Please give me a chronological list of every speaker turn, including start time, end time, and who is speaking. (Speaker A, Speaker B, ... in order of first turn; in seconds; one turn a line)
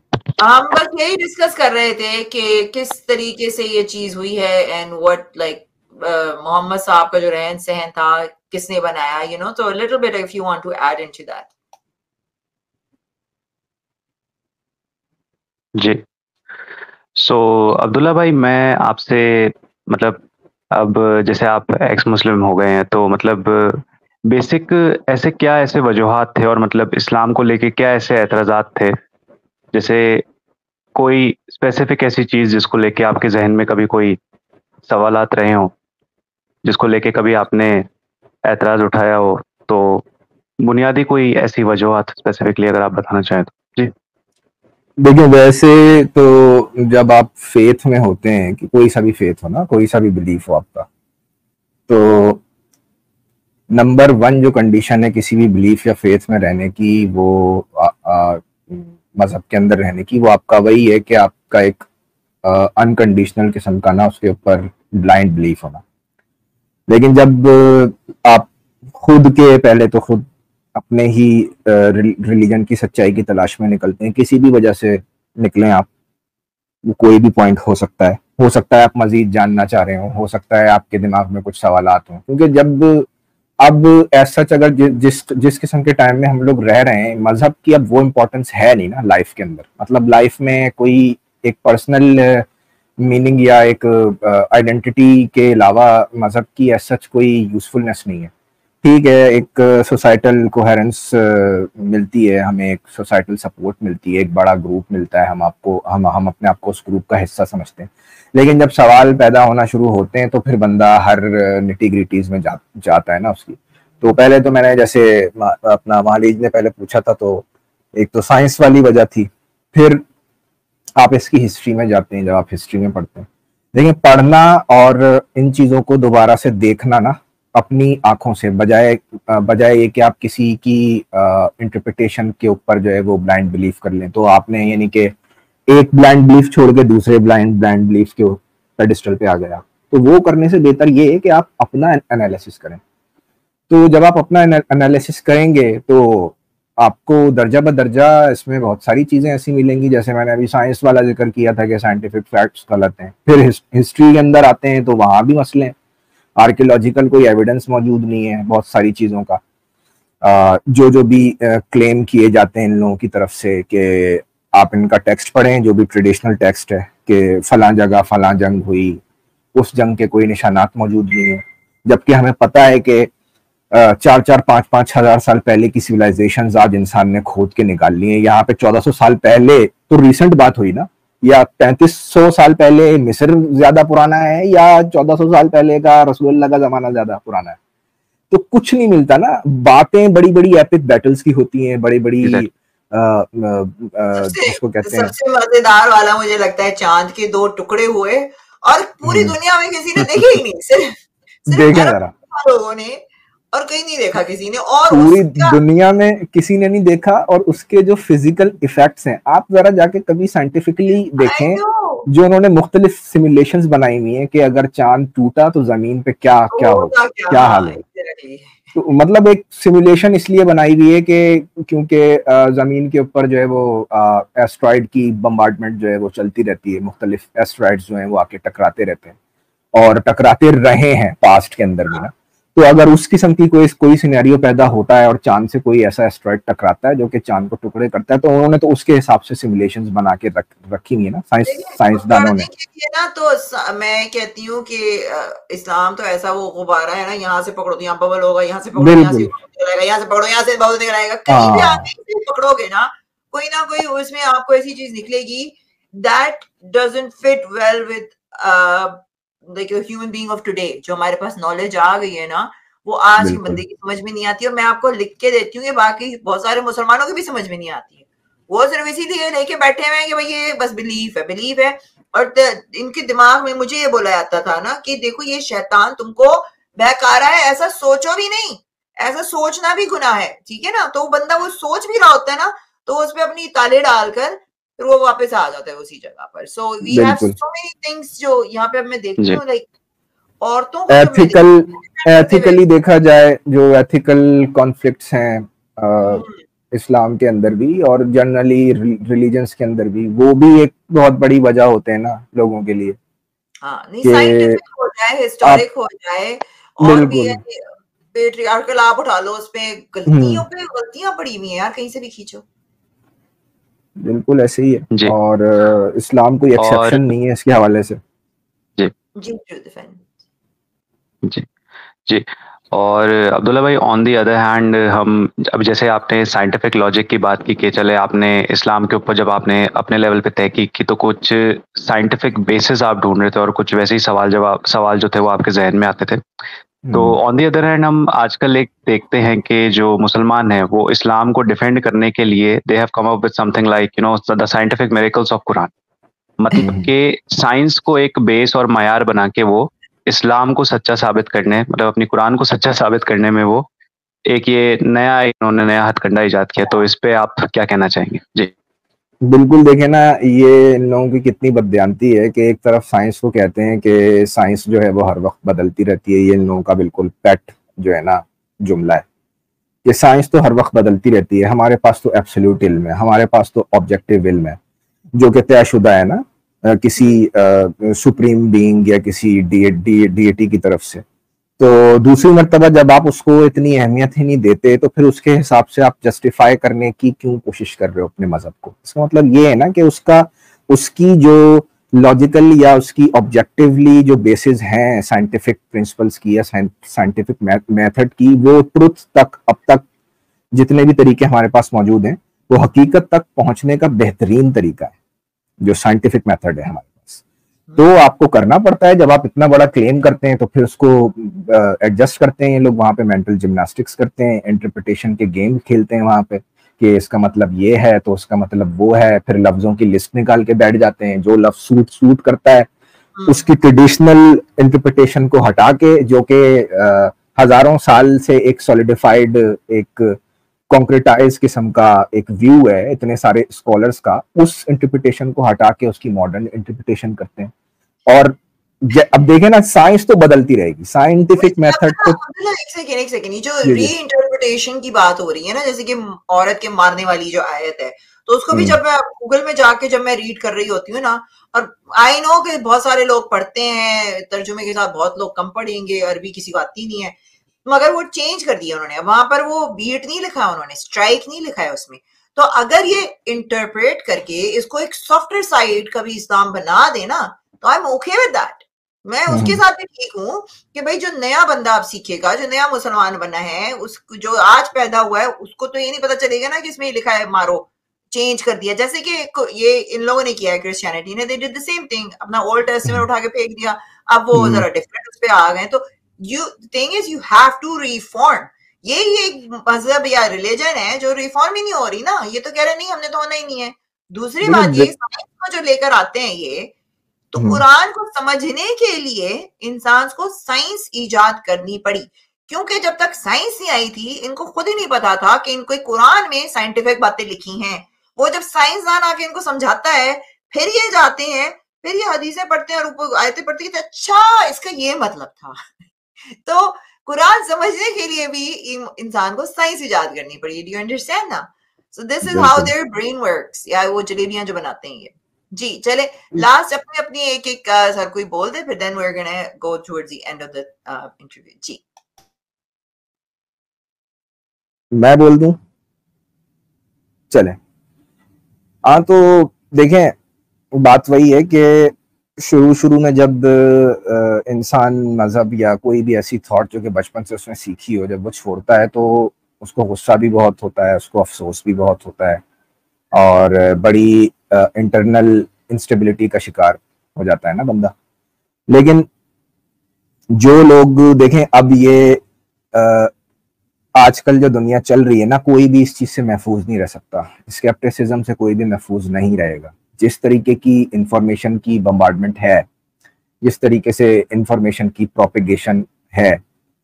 Speaker A: 0.4-11.5
Speaker B: 15.8-16.0
Speaker B: 17.2-28.9
Speaker B: 29.7-30.2
Speaker B: 30.9-34.2
Speaker B: 34.9-35.7
Speaker B: 36.6-37.9
Speaker B: 38.5-40.0
Speaker B: 40.6-43.9
Speaker C: 45.0-50.9
Speaker C: 51.9-52.4
Speaker C: 53.7-61.9
Speaker C: 62.4-65.8
Speaker C: 66.9-75.9
Speaker C: 76.9-83.1
Speaker C: 83.6-92.5
Speaker C: 93.0-98.3
Speaker C: 98.8-117.5
Speaker C: 118.0-120.0
Speaker C: 121.0-135.1
Speaker C: 135.7-142.8
Speaker C: 143.7-155.8
Speaker C: 156.4-159.4
Speaker C: 160.2-169.0
Speaker C: 169.6-173.1
Speaker C: 173.7-187.6
Speaker C: 188.3-195.1
Speaker A: 194.1-203.0
Speaker C: 199.0-199.4
Speaker C: 200.0-200.4
Speaker C: 201.5-202.1
Speaker A: 203.5-205.6
Speaker C: 204.9-217.8
Speaker A: 211.2-212.1
Speaker A: 216.5-218.6
Speaker C: 218.7-229.2
Speaker C: 229.8-242.5
Speaker A: 241.5-289.7
Speaker C: 248.8-249.3
Speaker C: 251.3-251.9
Speaker C: 263.2-263.6
Speaker C: 286.8-287.4
Speaker A: 290.4-292.6
Speaker C: 290.9-303.0
Speaker A: 296.0-296.4
Speaker A: 303.6-312.4
Speaker C: 304.0-304.6
Speaker C: 306.8-307.4
Speaker C: 310.1-310.4
Speaker C: 314.0-318.0
Speaker B: 316.6-317.0
Speaker A: 319.2-320.1
Speaker B: 322.1-336.2
Speaker C: 336.9-337.2
Speaker B: 336.9-345.7
Speaker B: 346.4-353.7
Speaker C: 346.6-346.9
Speaker B: 354.3-358.5
Speaker C: 359.2-369.1
Speaker C: 369.9-374.6
Speaker C: 375.2-381.0
Speaker C: 381.6-399.9
Speaker C: 400.5-404.9
Speaker C: 405.6-407.2
Speaker C: 407.8-422.7
Speaker A: 423.2-423.5
Speaker C: 423.3-430.2
Speaker C: 430.7-437.5
Speaker C: 438.1-442.2
Speaker A: 441.4-496.7
Speaker C: 443.6-443.9
Speaker C: 448.5-448.8
Speaker C: 469.3-469.6
Speaker C: 484.3-484.7
Speaker C: 494.4-494.9
Speaker A: 497.3-515.6
Speaker C: 497.4-497.6
Speaker A: 516.2-531.8
Speaker C: 522.2-522.7
Speaker C: 534.9-535.6
Speaker C: 537.3-537.6
Speaker C: 538.9-540.1
Speaker C: 540.7-552.4
Speaker C: 553.1-557.9
Speaker C: 558.7-559.1
Speaker C: 560.3-562.2
Speaker C: 562.7-563.1
Speaker C: 564.0-572.7
Speaker C: 573.4-576.4